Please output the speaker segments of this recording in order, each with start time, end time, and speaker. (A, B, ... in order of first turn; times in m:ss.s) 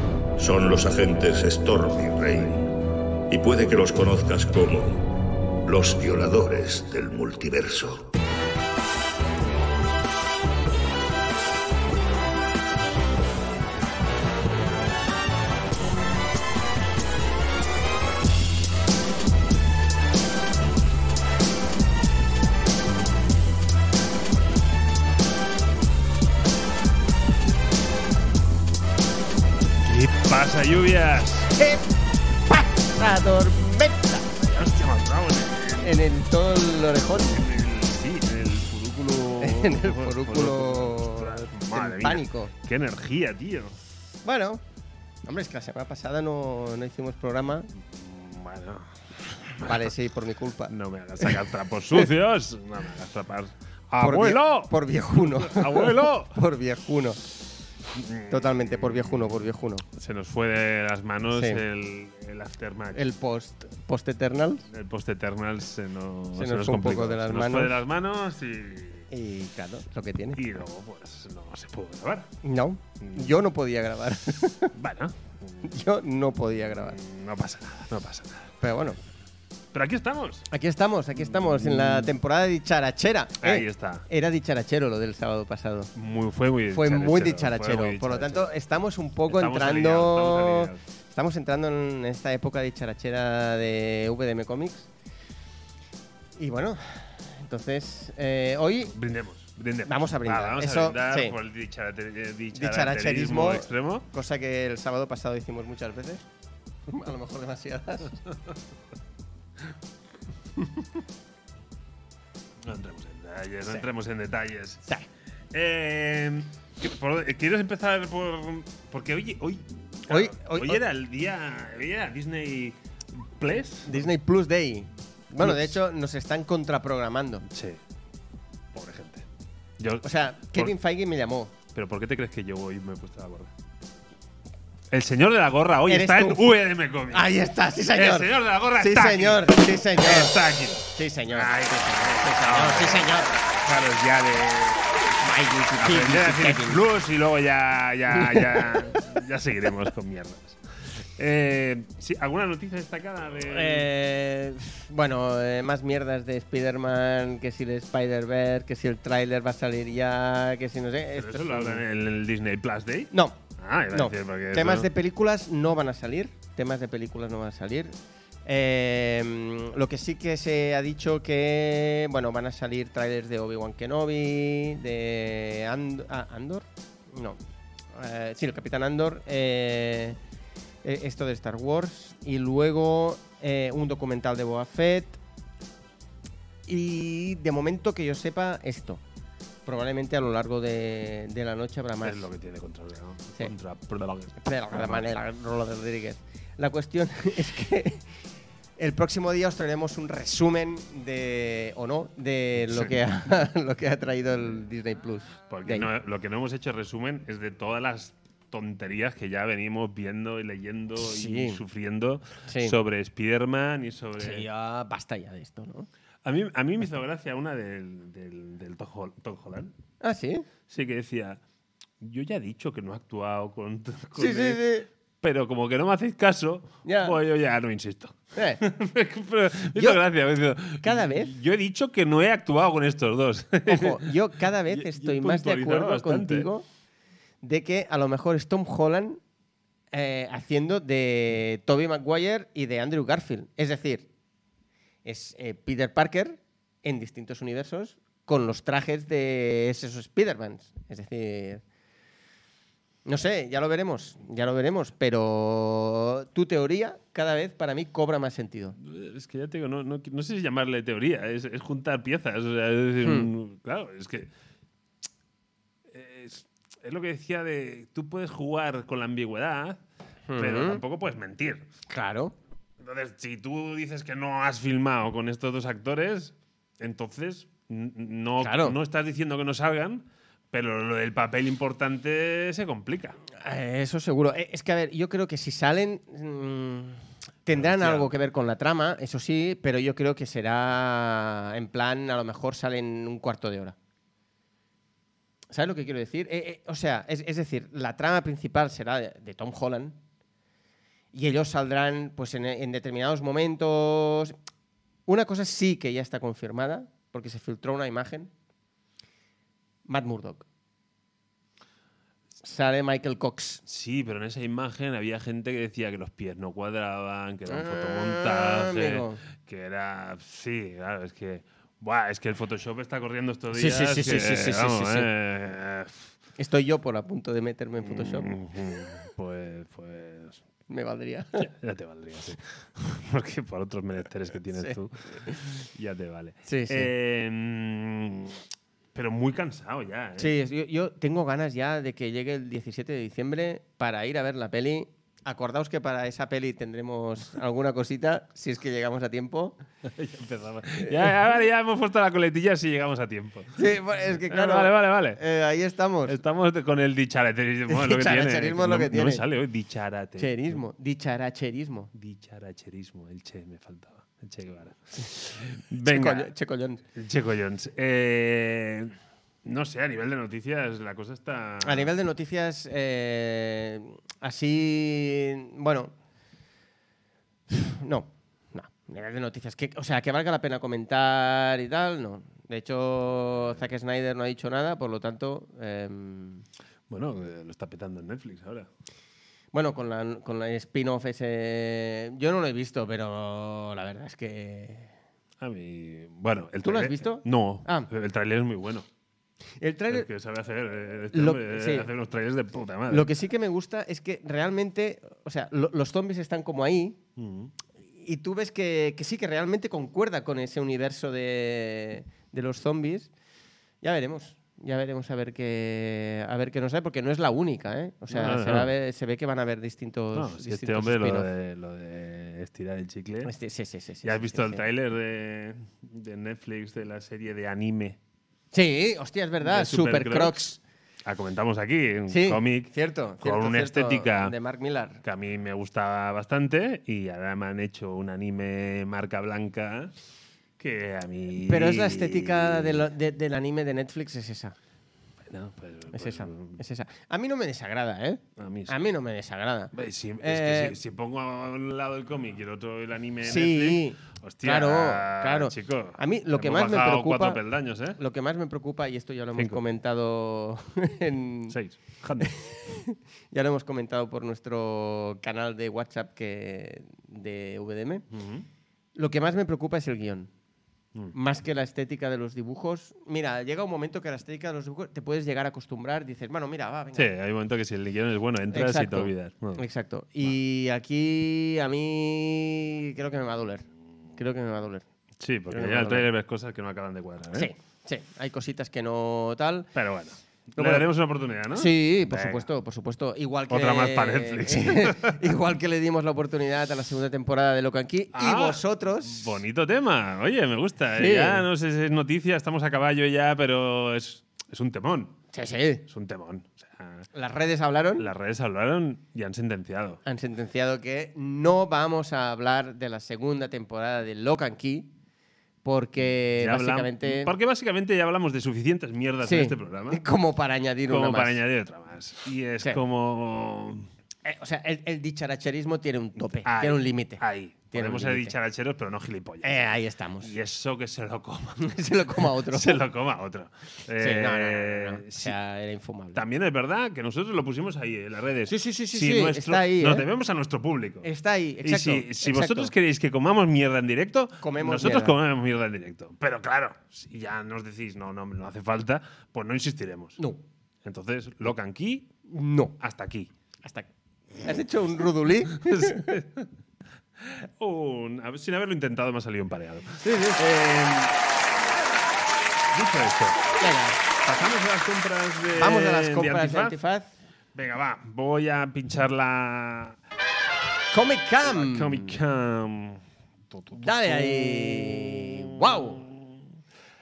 0:00.4-0:02.7 A
0:03.3-0:05.1 A
0:05.6-0:08.1 A
0:29.8-0:31.5 B
0:31.6-0:31.9 C
0:32.5-0:34.4 C
0:34.4-0:36.0 B
0:35.8-0:37.4 C
0:37.3-0:43.8 B
0:39.4-0:42.5 C
0:44.2-0:44.6 C
0:45.2-0:47.7 C
0:47.8-0:49.9 B
0:49.6-0:51.4 C
0:50.7-0:56.4 B
0:54.0-0:57.2 C
0:57.9-0:59.4 B
0:58.3-0:59.8 C
0:59.9-1:03.0 B
1:01.3-1:01.6 C
1:02.9-1:04.7 C
1:04.7-1:09.1 B
1:06.3-1:07.8 C
1:09.1-1:10.4 C
1:10.3-1:12.3 B
1:12.4-1:14.7 C
1:13.0-1:13.4 B
1:14.7-1:15.7 B
1:15.6-1:17.0 C
1:16.7-1:18.5 B
1:18.6-1:19.0 C
1:19.7-1:20.5 B
1:20.5-1:25.9 C
1:21.2-1:22.2 B
1:23.4-1:24.0 B
1:25.9-1:28.5 B
1:26.7-1:34.9 C
1:29.3-1:30.8 B
1:36.4-1:38.9 C
1:38.9-1:44.1 B
1:39.8-1:41.4 C
1:42.5-1:46.2 C
1:46.9-1:48.2 C
1:50.6-1:50.9 C
1:52.6-1:54.8 B
1:55.5-2:04.1 B
2:00.1-2:00.8 C
2:03.8-2:07.4 C
2:05.4-2:05.8 B
2:07.5-2:07.8 B
2:08.7-2:09.2 B
2:09.8-2:10.7 B
2:10.0-2:11.5 C
2:11.7-2:13.5 B
2:14.9-2:17.3 B
2:15.9-2:16.5 C
2:17.1-2:20.4 C
2:17.9-2:25.1 B
2:20.9-2:23.4 C
2:25.2-2:26.8 C
2:25.8-2:33.9 B
2:28.2-2:28.6 C
2:33.5-2:41.8 C
2:41.1-2:44.9 B
2:43.1-2:43.4 C
2:43.9-2:47.9 C
2:48.4-2:57.4 C
2:57.9-3:00.2 C
3:00.8-3:05.2 C
3:06.7-3:09.0 C
3:09.6-3:12.2 C
3:12.0-3:15.1 B
3:14.4-3:18.1 C
3:18.8-3:25.9 C
3:25.5-3:34.4 B
3:31.0-3:31.6 C
3:32.5-3:32.8 C
3:34.2-3:35.9 C
3:36.2-3:39.7 B
3:40.0-3:40.5 C
3:40.7-3:41.4 B
3:42.0-3:44.6 B
3:44.2-3:44.9 C
3:45.2-3:56.5 B
3:46.8-3:47.2 C
3:48.3-3:48.6 C
3:49.7-3:50.0 C
3:50.8-3:51.3 C
3:53.6-3:56.6 C
3:57.4-3:59.2 C
3:59.9-4:04.1 C
4:05.0-4:11.6 C
4:13.0-4:18.8 C
4:18.8-4:24.3 B
4:23.0-4:23.3 C
4:25.9-4:29.8 B
4:30.3-4:30.8 C
4:30.4-4:31.7 B
4:31.9-4:32.3 C
4:32.8-4:43.2 B
4:38.4-4:38.8 C
4:43.3-4:53.7 C
4:47.5-4:48.1 B
4:55.5-5:00.0 C
5:01.1-5:04.4 C
5:05.1-5:08.3 C
5:09.8-5:10.4 C
5:12.4-5:13.6 C
5:13.6-5:26.0 B
5:17.5-5:19.2 C
5:23.5-5:25.1 C
5:26.4-5:28.3 C
5:27.8-5:30.4 B
5:30.7-5:31.5 C
5:31.4-5:40.3 B
5:34.6-5:35.4 C
5:36.5-5:36.9 C
5:40.2-5:49.6 C
5:49.8-5:53.6 B
5:53.6-5:56.2 C
5:54.3-5:55.2 B
5:56.1-6:00.6 B
5:57.7-5:59.2 C
6:00.2-6:01.9 C
6:01.9-6:06.3 B
6:05.8-6:06.8 C
6:06.9-6:11.9 B
6:11.6-6:15.9 C
6:17.5-6:26.4 C
6:26.9-6:28.7 B
6:29.5-6:34.9 C
6:35.4-6:38.9 B
6:36.6-6:37.9 C
6:39.6-6:40.1 C
6:39.9-6:43.1 B
6:41.1-6:41.9 C
6:42.9-6:47.0 C
6:47.2-6:47.5 B
6:48.0-6:53.1 C
6:53.8-7:01.3 C
6:58.1-6:58.7 B
7:00.1-7:03.3 B
7:03.2-7:04.6 C
7:04.0-7:08.0 B
7:08.5-7:10.6 C
7:09.4-7:10.4 B
7:11.0-7:14.3 B
7:12.1-7:15.0 C
7:15.0-7:19.9 B
7:20.6-7:22.9 B
7:21.4-7:24.6 C
7:25.2-7:26.6 B
7:25.9-7:30.8 C
7:28.4-7:28.7 B
7:29.7-7:38.0 B
7:33.2-7:37.4 C
7:38.0-7:41.6 C
7:39.3-7:39.6 B
7:41.5-7:42.7 B
7:42.2-7:48.0 C
7:48.1-7:48.4 B
7:48.9-7:50.3 C
7:51.1-7:57.1 C
7:56.9-7:59.6 B
7:58.5-8:04.8 C
8:05.2-8:07.5 B
8:05.5-8:06.1 C
8:07.3-8:09.7 C
8:09.7-8:12.4 B
8:10.6-8:10.9 C
8:11.5-8:19.4 C
8:13.5-8:15.3 B
8:18.1-8:25.2 B
8:21.0-8:21.4 C
8:25.3-8:25.8 C
8:25.9-8:27.1 B
8:27.1-8:28.0 C
8:28.0-8:30.0 B
8:30.0-8:34.9 C
8:35.6-8:37.3 C
8:36.4-8:40.0 B
8:39.2-8:41.4 C
8:40.9-8:43.9 B
8:44.2-8:47.2 C
8:46.4-8:55.4 B
8:47.7-8:48.3 C
8:49.4-8:50.3 C
8:51.6-8:52.8 C
8:54.0-8:56.2 C
8:56.1-9:01.1 B
8:58.5-9:00.1 C
9:01.0-9:02.7 C
9:01.6-9:10.2 B
9:04.4-9:05.2 C
9:10.2-9:10.4 C
9:10.8-9:12.1 B
9:12.3-9:12.7 C
9:12.8-9:13.3 B
9:14.4-9:16.2 C
9:15.6-9:16.5 B
9:17.2-9:21.2 B
9:20.0-9:20.4 C
9:22.7-9:23.4 B
9:23.6-9:24.0 C
9:24.2-9:26.8 B
9:25.6-9:27.1 C
9:27.5-9:30.0 B
9:30.9-9:32.2 C
9:31.4-9:36.4 B
9:33.7-9:36.0 C